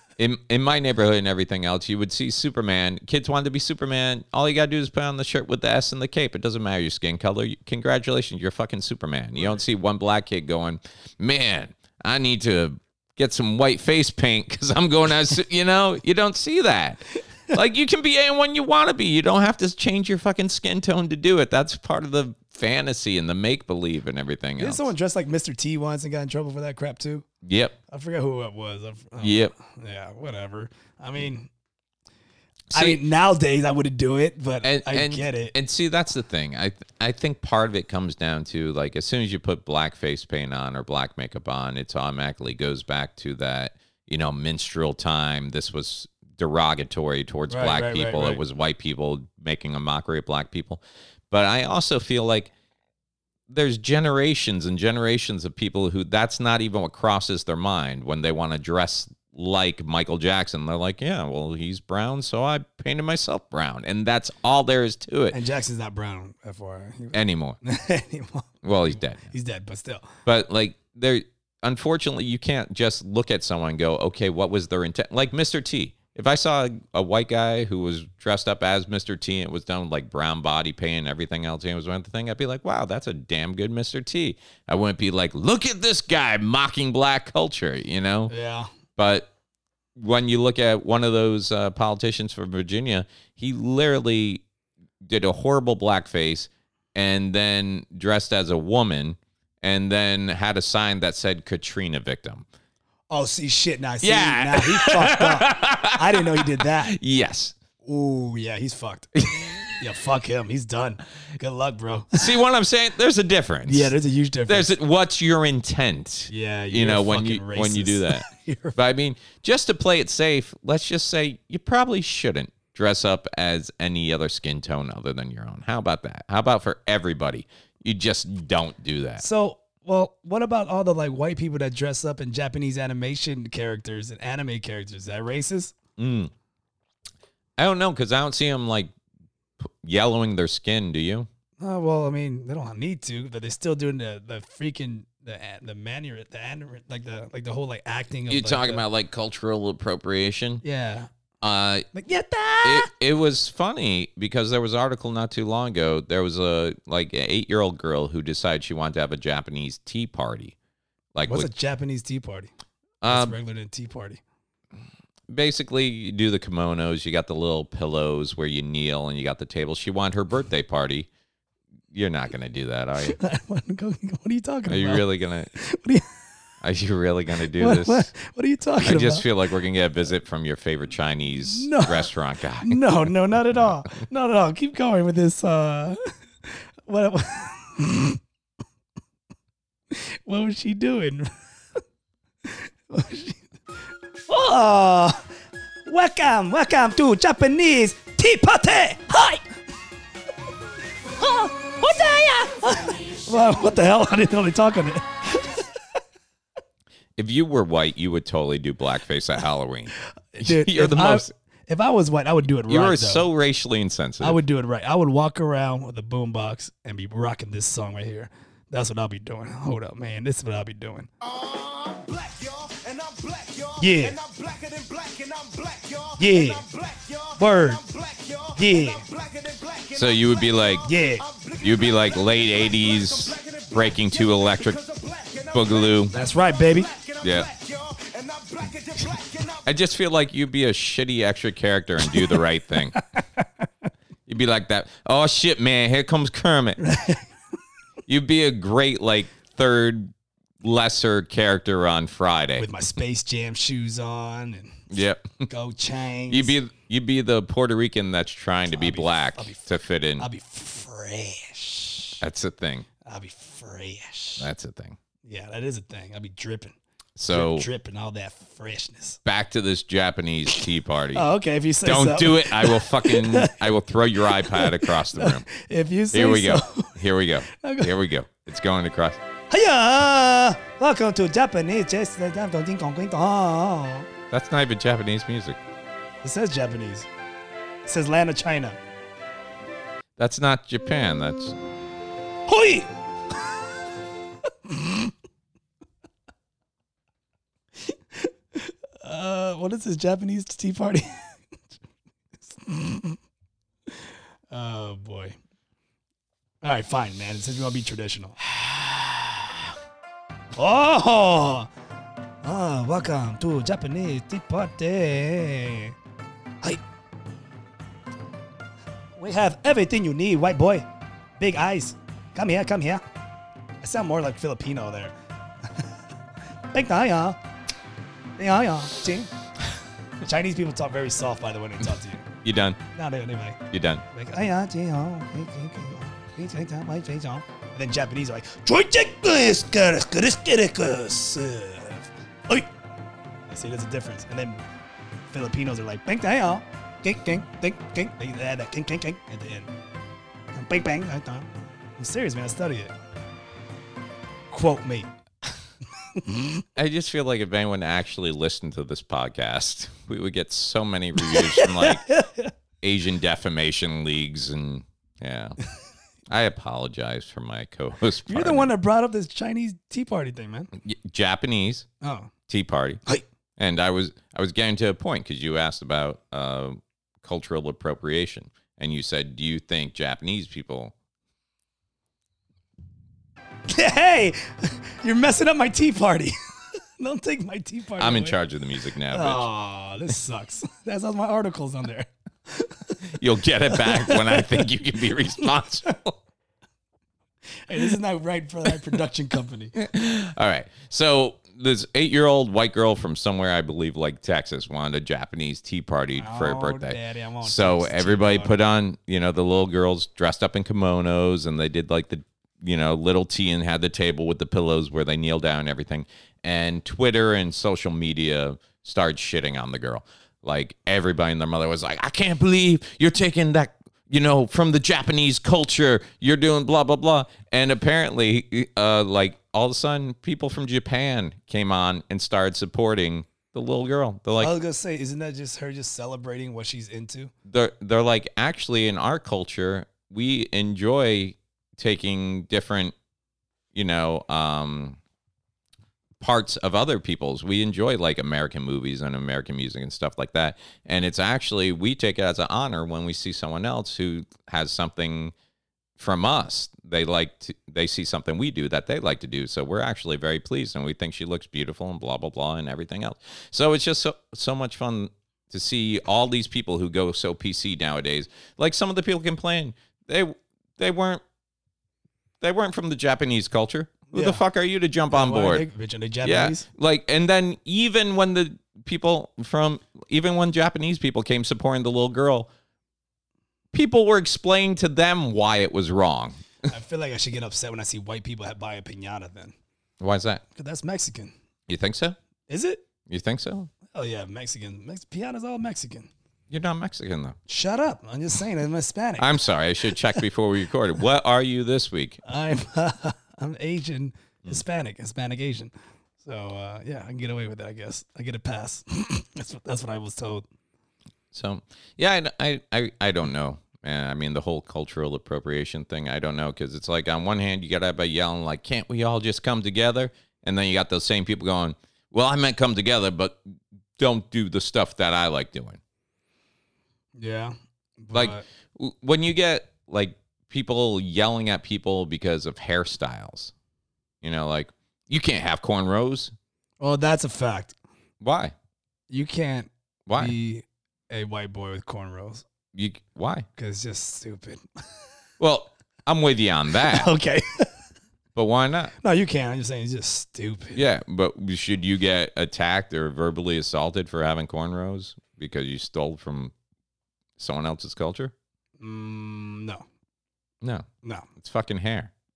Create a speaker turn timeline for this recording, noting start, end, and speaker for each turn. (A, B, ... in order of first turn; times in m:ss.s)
0:00.2-0:24.9 A
0:24.6-0:27.2 B
0:27.4-0:27.8 A
0:27.9-0:31.5 B
0:29.2-0:29.5 A
0:32.7-0:33.0 A
0:32.7-0:35.5 B
0:34.6-0:52.5 A
0:47.5-0:48.4 B
0:53.5-1:05.4 A
1:05.3-1:10.2 B
1:07.1-1:07.6 A
1:08.6-1:09.3 A
1:10.2-1:28.3 A
1:28.3-1:28.7 B
1:29.0-1:29.3 A
1:30.0-1:34.4 A
1:35.0-1:42.4 A
1:43.1-1:46.9 B
1:44.0-1:47.6 A
1:47.8-1:52.3 B
1:49.3-1:49.7 A
1:52.1-1:53.9 A
1:53.7-1:54.7 B
1:54.5-2:09.2 A
1:56.3-1:58.8 B
2:09.2-2:15.7 B
2:16.0-2:16.3 A
2:17.6-2:18.9 A
2:19.6-2:21.3 A
2:21.6-2:28.8 B
2:28.3-2:30.6 A
2:30.6-2:31.1 B
2:31.4-2:31.9 A
2:31.9-2:32.9 B
2:32.6-2:40.5 A
2:41.1-2:41.5 A
2:41.3-2:42.5 B
2:43.0-2:43.4 A
2:43.0-2:44.2 B
2:45.3-2:51.1 A
2:51.9-2:53.2 A
2:53.0-2:56.1 B
2:54.7-2:55.5 A
2:56.6-2:58.1 A
2:57.5-2:59.3 B
2:58.8-3:03.6 A
3:01.4-3:02.1 B
3:02.6-3:08.2 B
3:09.9-3:11.3 B
3:12.4-3:13.4 B
3:14.3-3:15.3 B
3:15.8-3:19.5 B
3:21.2-3:25.6 B
3:27.2-3:31.3 A
3:30.3-3:33.2 B
3:32.7-3:34.4 A
3:34.2-3:41.1 B
3:41.2-3:59.7 C
3:43.8-3:44.2 B
3:46.2-3:46.6 B
3:47.4-3:47.8 B
3:48.6-3:49.0 B
3:49.9-3:50.9 A
3:50.8-3:51.2 B
3:51.6-3:54.8 A
3:55.5-3:56.1 A
3:56.1-3:56.9 B
3:57.2-3:57.5 A
3:59.6-4:03.0 A
4:02.9-4:03.4 B
4:04.3-4:06.8 A
4:06.8-4:07.3 B
4:08.1-4:12.7 A
4:12.6-4:14.9 B
4:14.9-4:15.5 A
4:15.5-4:16.5 B
4:16.3-4:20.3 A
4:18.7-4:19.7 B
4:20.2-4:22.2 B
4:22.2-4:22.9 A
4:23.0-4:24.5 B
4:24.4-4:25.0 A
4:25.2-4:26.8 B
4:27.2-4:27.7 A
4:27.3-4:29.2 B
4:29.2-4:31.3 A
4:31.1-4:33.6 B
4:31.8-4:35.4 A
4:34.3-4:37.9 B
4:36.1-4:39.2 A
4:39.5-4:44.1 B
4:44.3-4:45.6 A
4:46.2-4:47.1 B
4:47.8-4:48.8 B
4:50.2-4:51.6 A
4:52.5-4:52.9 B
4:54.7-4:55.1 B
4:57.9-5:01.2 B
5:02.4-5:03.2 B
5:04.5-5:05.4 B
5:06.6-5:08.5 B
5:10.5-5:11.7 B
5:12.4-5:15.9 B
5:19.2-5:20.8 B
5:21.4-5:23.0 B
5:23.8-5:25.1 B
5:26.7-5:27.4 B
5:28.4-5:29.3 B
5:30.2-5:32.3 B
5:32.4-5:32.8 A
5:32.9-5:42.7 B
5:33.7-5:34.0 A
5:43.5-5:44.6 B
5:45.3-5:49.7 B
5:50.5-5:52.9 B
5:54.5-5:55.1 B
5:56.1-5:56.6 B
5:56.8-6:02.0 A
6:01.2-6:02.5 B
6:02.8-6:05.6 A
6:06.3-6:08.7 A
6:08.3-6:10.7 B
6:10.7-6:11.9 A
6:12.0-6:12.3 B
6:12.5-6:13.0 A
6:13.6-6:20.9 A
6:23.7-6:26.3 B
6:27.0-6:28.4 B
6:28.0-6:29.5 A
6:29.1-6:33.0 B
6:33.1-6:36.2 A
6:33.7-6:34.7 B
6:37.7-6:39.8 B
6:39.8-7:14.5 A
6:46.2-6:48.5 B
7:14.4-7:17.3 B
7:17.4-7:22.9 A
7:23.7-7:25.0 A
7:26.2-7:35.3 A
7:36.0-7:51.2 A
7:52.4-7:55.6 A
7:54.1-7:54.4 B
7:55.1-7:56.6 B
7:56.2-8:02.5 A
8:03.7-8:06.4 A
8:06.7-8:09.5 B
8:10.0-8:10.4 A
8:10.5-8:11.3 B
8:11.7-8:12.2 A
8:12.5-8:12.8 B
8:13.1-8:13.7 A
8:13.9-8:16.1 B
8:16.5-8:17.4 A
8:17.5-8:19.4 B
8:19.2-8:22.2 A
8:22.2-8:30.4 B
8:31.3-8:43.4 A
8:44.0-8:45.8 A
8:47.1-8:48.4 B
8:48.1-8:53.5 A
8:54.2-8:56.3 A
8:56.8-8:57.7 B
8:58.2-8:58.5 A
8:59.1-9:02.4 B
9:00.1-9:00.4 A
9:02.7-9:03.5 A
9:03.6-9:04.6 B
9:05.4-9:07.1 A
9:06.8-9:07.7 B
9:08.3-9:08.9 A
9:09.0-9:10.8 B
9:10.7-9:16.5 A
9:17.4-9:18.3 A
9:18.8-9:19.8 B
9:20.6-9:22.1 A
9:21.0-9:21.3 B